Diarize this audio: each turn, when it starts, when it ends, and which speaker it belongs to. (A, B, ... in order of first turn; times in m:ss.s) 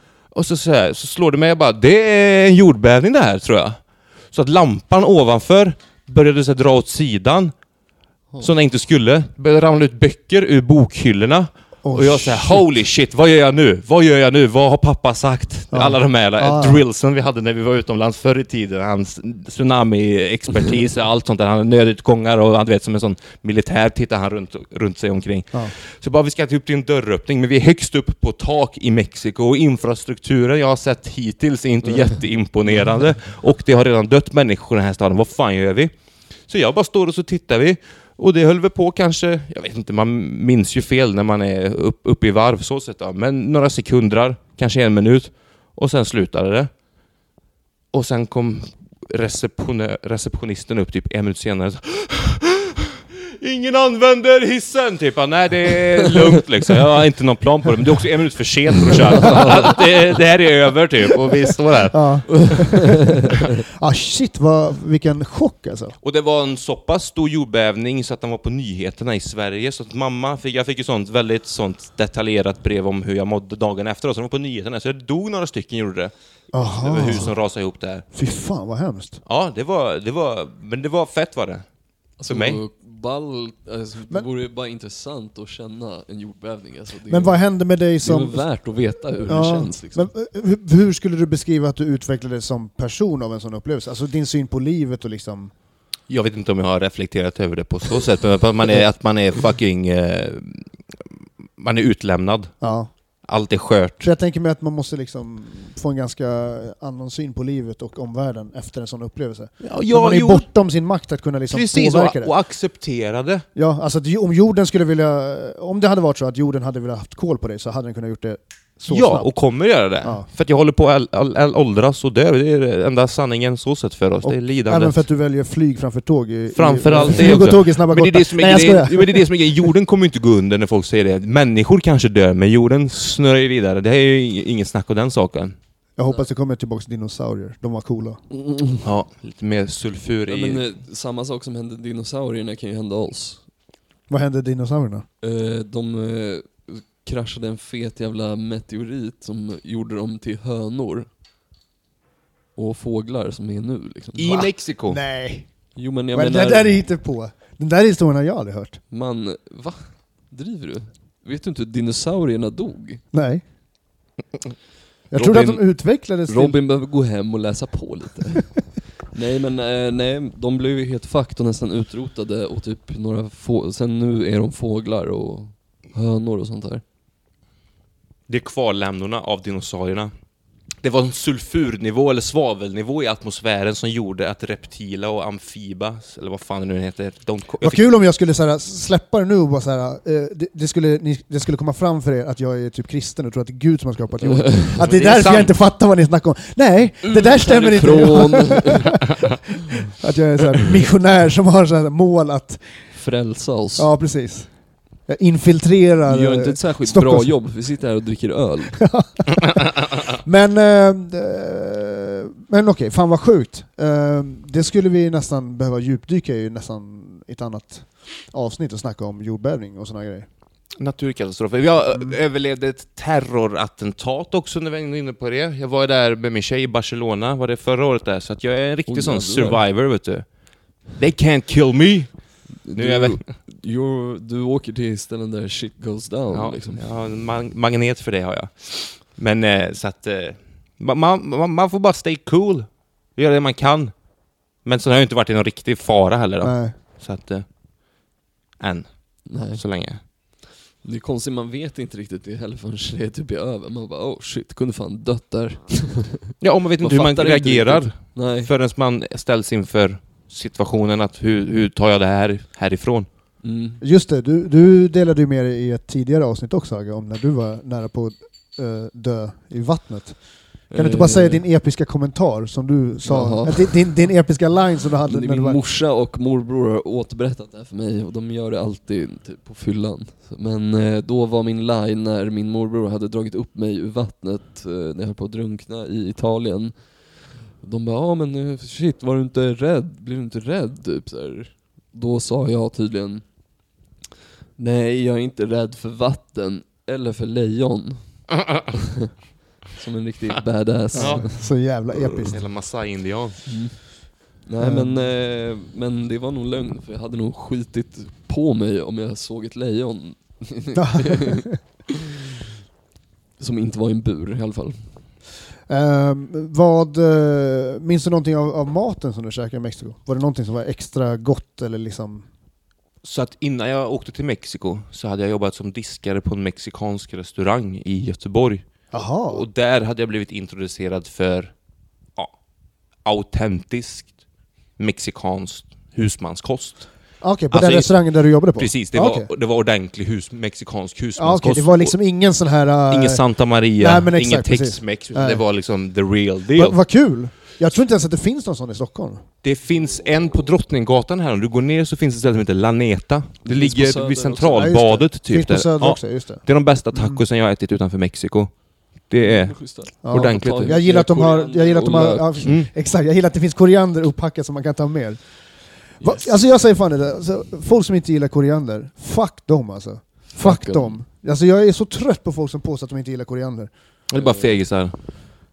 0:00.3-0:07.5 A
0:08.4-0:35.9 A
0:11.8-0:12.6 B
0:15.7-0:16.8 B
0:31.8-0:32.2 C
0:36.4-0:46.7 A
0:47.9-1:02.6 A
1:01.9-1:03.0 B
1:03.8-1:06.0 B
1:06.0-1:18.0 A
1:16.5-1:17.3 B
1:18.1-1:19.2 B
1:19.2-1:21.7 A
1:22.2-1:30.1 C
1:22.2-1:22.6 A
1:27.1-1:35.5 B
1:36.1-1:40.7 A
1:41.6-1:42.5 A
1:42.6-1:42.9 B
1:43.2-1:44.1 A
1:44.0-1:52.3 B
1:49.6-1:50.5 A
1:51.5-1:53.4 A
1:53.5-1:59.3 B
1:58.9-2:05.0 A
2:00.0-2:00.3 B
2:04.2-2:09.7 B
2:06.5-2:15.6 A
2:16.0-2:18.2 B
2:18.3-2:18.8 C
2:18.8-2:20.6 A
2:20.3-2:23.4 C
2:24.1-2:25.0 B
2:25.2-2:31.1 C
2:32.6-2:34.5 C
2:34.2-2:35.0 A
2:34.9-2:38.8 B
2:35.7-2:36.8 C
2:38.9-2:43.0 C
2:43.1-2:43.4 B
2:45.1-2:46.6 B
2:45.1-2:56.8 C
2:58.3-3:00.1 A
3:00.8-3:07.8 A
3:07.6-3:19.0 B
3:14.2-3:14.7 C
3:14.8-3:15.5 A
3:17.0-3:19.0 C
3:19.9-3:22.9 B
3:22.9-3:23.9 C
3:23.8-3:27.5 B
3:26.0-3:29.1 C
3:28.8-3:40.3 B
3:40.8-3:53.2 A
3:48.9-3:49.6 C
3:52.7-3:56.8 C
3:56.3-4:04.0 A
4:04.6-4:07.4 A
4:06.4-4:06.8 B
4:08.6-4:10.0 A
4:09.3-4:09.6 C
4:10.2-4:18.5 C
4:16.4-4:23.1 A
4:23.4-4:23.8 C
4:23.8-4:35.6 B
4:30.7-4:31.4 C
4:33.0-4:34.1 C
4:35.1-4:53.2 C
4:54.6-4:59.1 C
4:59.6-5:01.5 C
5:00.9-5:02.4 B
5:00.9-5:01.4 A
5:02.3-5:03.4 A
5:03.5-5:11.4 C
5:04.6-5:05.1 B
5:10.7-5:11.6 B
5:13.4-5:14.9 C
5:15.7-5:22.3 B
5:23.0-5:28.7 A
5:28.9-5:29.4 B
5:29.2-5:31.5 A
5:33.0-5:34.2 A
5:34.8-5:42.0 A
5:37.2-5:39.3 B
5:41.2-5:45.4 B
5:42.9-5:46.8 A
5:46.5-5:49.2 B
5:49.4-6:00.7 A
5:53.4-5:54.7 C
5:54.5-5:57.2 B
5:59.2-6:02.6 C
6:00.0-6:13.7 B
6:02.4-6:02.7 A
6:06.0-6:06.3 C
6:10.4-6:11.0 C
6:14.1-6:15.1 A
6:14.2-6:14.6 C